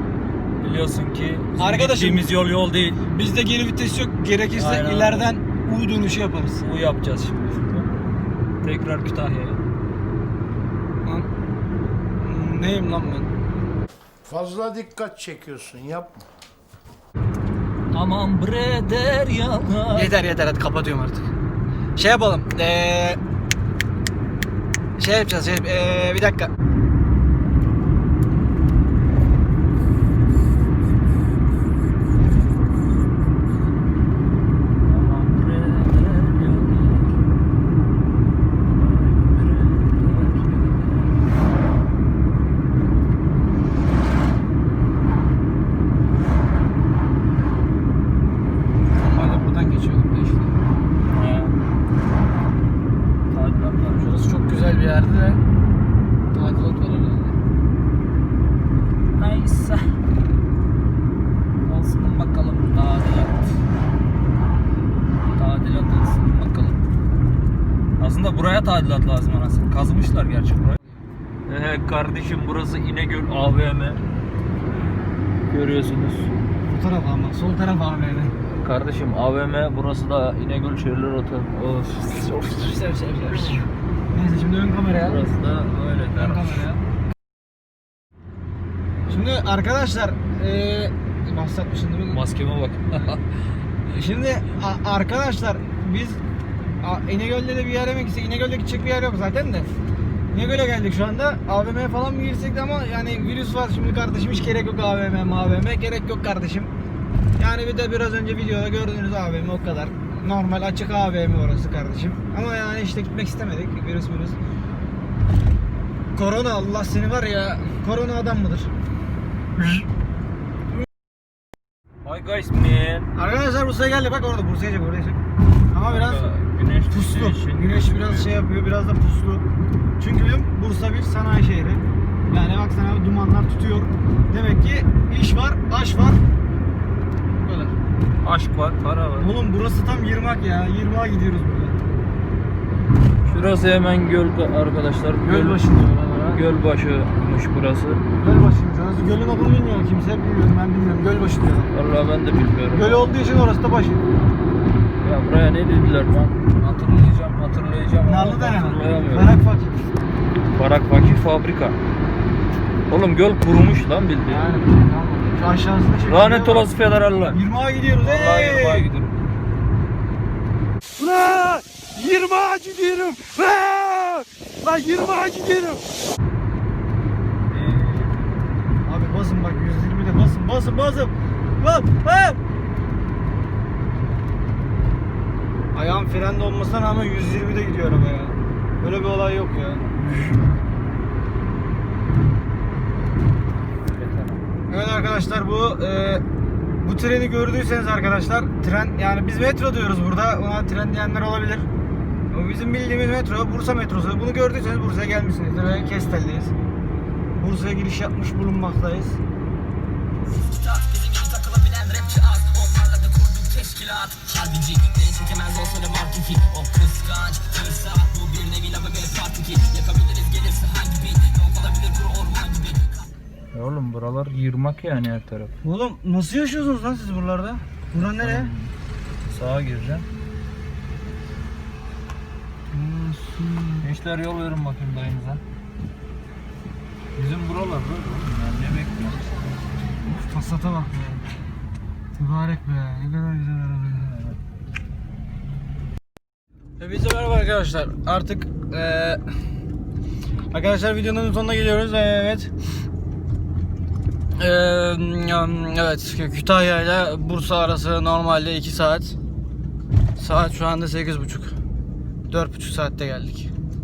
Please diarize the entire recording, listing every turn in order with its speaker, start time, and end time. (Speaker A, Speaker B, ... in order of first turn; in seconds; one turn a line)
Speaker A: 0.6-3.0
Speaker B: 1.6-2.3
Speaker B: 3.1-6.6
Speaker A: 4.6-5.3
Speaker A: 6.6-8.0
Speaker A: 8.6-9.6
Speaker B: 11.0-11.3
Speaker B: 12.2-13.3
Speaker C: 14.2-16.2
Speaker A: 17.9-20.1
Speaker B: 19.9-21.3
Speaker B: 22.0-23.2
Speaker B: 25.0-26.5
Speaker A: 30.9-31.8
Speaker A: 34.8-37.2
Speaker A: 38.6-41.3
Speaker B: 48.9-50.6
Speaker A: 51.1-51.6
Speaker A: 53.3-54.1
Speaker B: 54.0-55.4
Speaker B: 56.3-57.4
Speaker A: 59.1-59.9
Speaker A: 61.6-63.6
Speaker A: 65.3-66.8
Speaker A: 68.0-70.8
Speaker A: 71.5-74.0
Speaker A: 75.5-76.5
Speaker B: 76.7-78.3
Speaker A: 78.6-82.8
Speaker B: 82.3-85.2
Speaker A: 85.0-86.7
Speaker B: 86.1-86.8
Speaker B: 89.1-92.2
Speaker A: 92.1-93.3
Speaker B: 93.9-96.2
Speaker B: 96.8-99.7
Speaker B: 100.3-106.7
Speaker B: 107.4-114.4
Speaker B: 116.2-118.7
Speaker A: 119.6-119.9
Speaker A: 122.0-123.1
Speaker B: 123.2-126.3
Speaker A: 125.9-128.3
Speaker B: 126.9-129.4
Speaker B: 130.0-136.2
Speaker B: 137.3-137.8
Speaker A: 138.2-139.3
Speaker B: 139.2-141.8
Speaker A: 143.2-145.6
Speaker B: 145.2-146.4
Speaker A: 146.3-148.0
Speaker B: 148.2-151.7
Speaker A: 151.7-153.2
Speaker B: 152.8-154.1
Speaker A: 155.0-159.3
Speaker B: 158.1-159.9
Speaker A: 160.5-161.8
Speaker A: 162.9-164.5
Speaker B: 164.3-166.7
Speaker A: 166.1-167.4
Speaker B: 167.3-168.9
Speaker A: 168.0-169.2
Speaker B: 171.0-175.8
Speaker A: 177.5-178.3
Speaker B: 178.8-182.4
Speaker B: 185.7-189.9
Speaker A: 193.9-194.4
Speaker B: 194.7-196.2
Speaker B: 196.8-201.7
Speaker B: 202.3-206.5
Speaker B: 207.4-209.2
Speaker D: 210.3-223.1
Speaker A: 223.5-225.5
Speaker B: 225.6-228.5
Speaker A: 227.9-230.1
Speaker B: 232.7-233.9
Speaker A: 233.8-235.4
Speaker A: 237.2-239.2
Speaker B: 240.1-241.2
Speaker B: 242.2-244.2
Speaker A: 243.9-244.4
Speaker B: 246.8-249.2
Speaker B: 250.5-252.5
Speaker B: 254.4-259.2
Speaker B: 260.2-261.6
Speaker B: 262.3-263.5